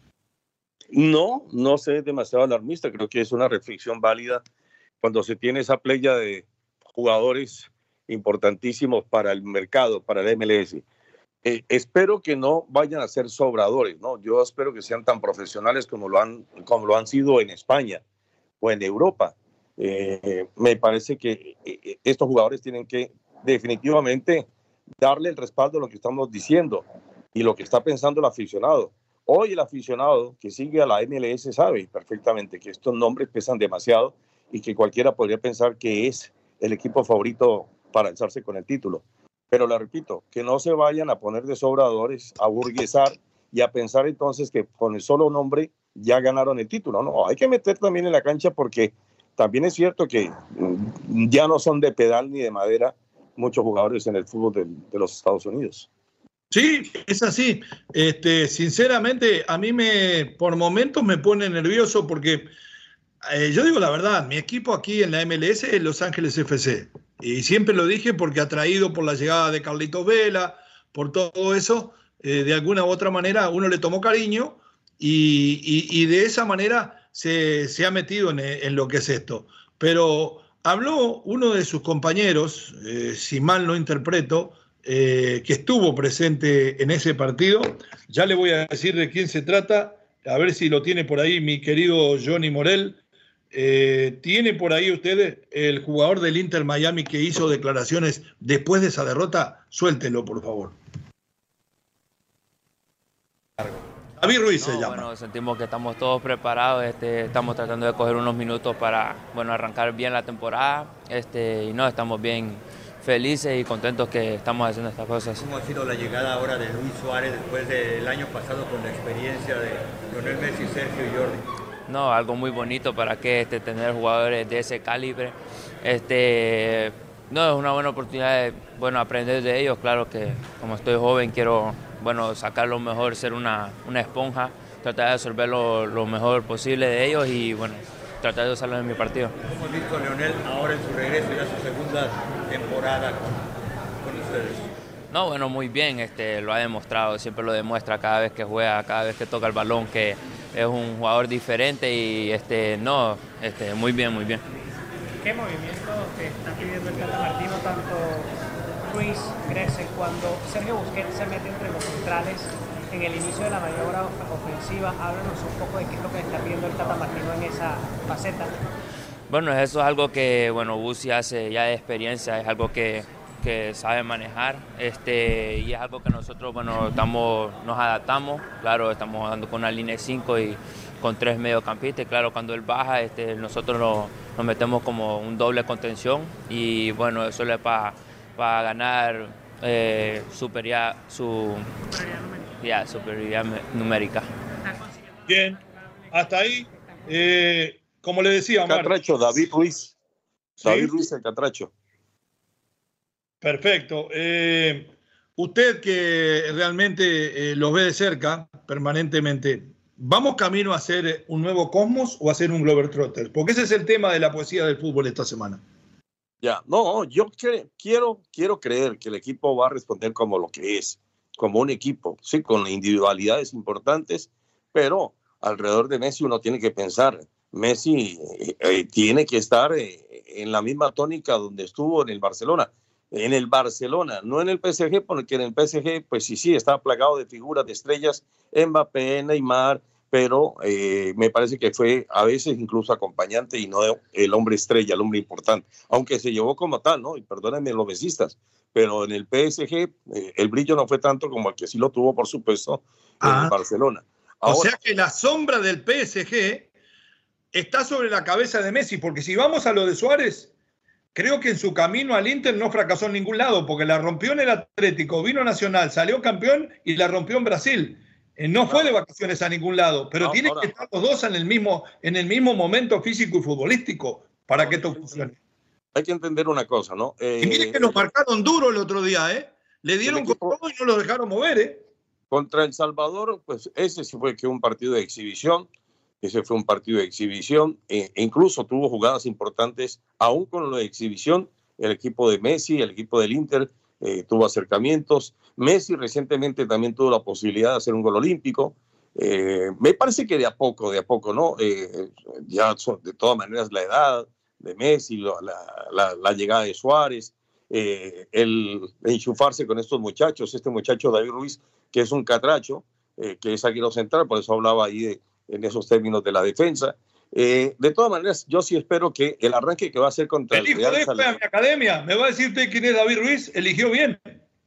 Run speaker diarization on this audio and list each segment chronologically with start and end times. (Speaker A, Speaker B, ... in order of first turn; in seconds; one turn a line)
Speaker A: 0.9-4.4
Speaker A: 5.0-10.8
Speaker A: 11.4-18.0
Speaker A: 18.6-24.5
Speaker A: 25.0-55.9
Speaker B: 56.5-62.5
Speaker B: 63.3-93.0
Speaker B: 93.5-100.8
Speaker B: 104.2-105.1
Speaker C: 104.6-115.4
Speaker D: 115.4-121.4
Speaker C: 121.9-139.3
Speaker D: 139.4-143.5
Speaker D: 144.0-144.7
Speaker C: 145.1-154.4
Speaker E: 155.2-158.3
Speaker E: 158.8-168.6
Speaker C: 169.3-191.7
Speaker E: 192.0-192.3
Speaker C: 192.6-194.3
Speaker B: 195.3-195.6
Speaker B: 196.1-198.9
Speaker A: 198.6-199.9
Speaker B: 200.6-200.9
Speaker A: 200.6-201.7
Speaker B: 203.4-215.6
Speaker A: 216.4-254.7
Speaker B: 253.2-253.5
Speaker B: 254.5-256.7
Speaker B: 257.5-260.5
Speaker B: 261.1-275.4
Speaker A: 268.6-268.9
Speaker A: 270.2-270.7
Speaker A: 274.6-275.2
Speaker A: 275.9-278.0
Speaker B: 277.4-281.8
Speaker A: 280.1-280.6
Speaker A: 282.3-285.7
Speaker A: 286.2-321.4
Speaker B: 320.5-324.2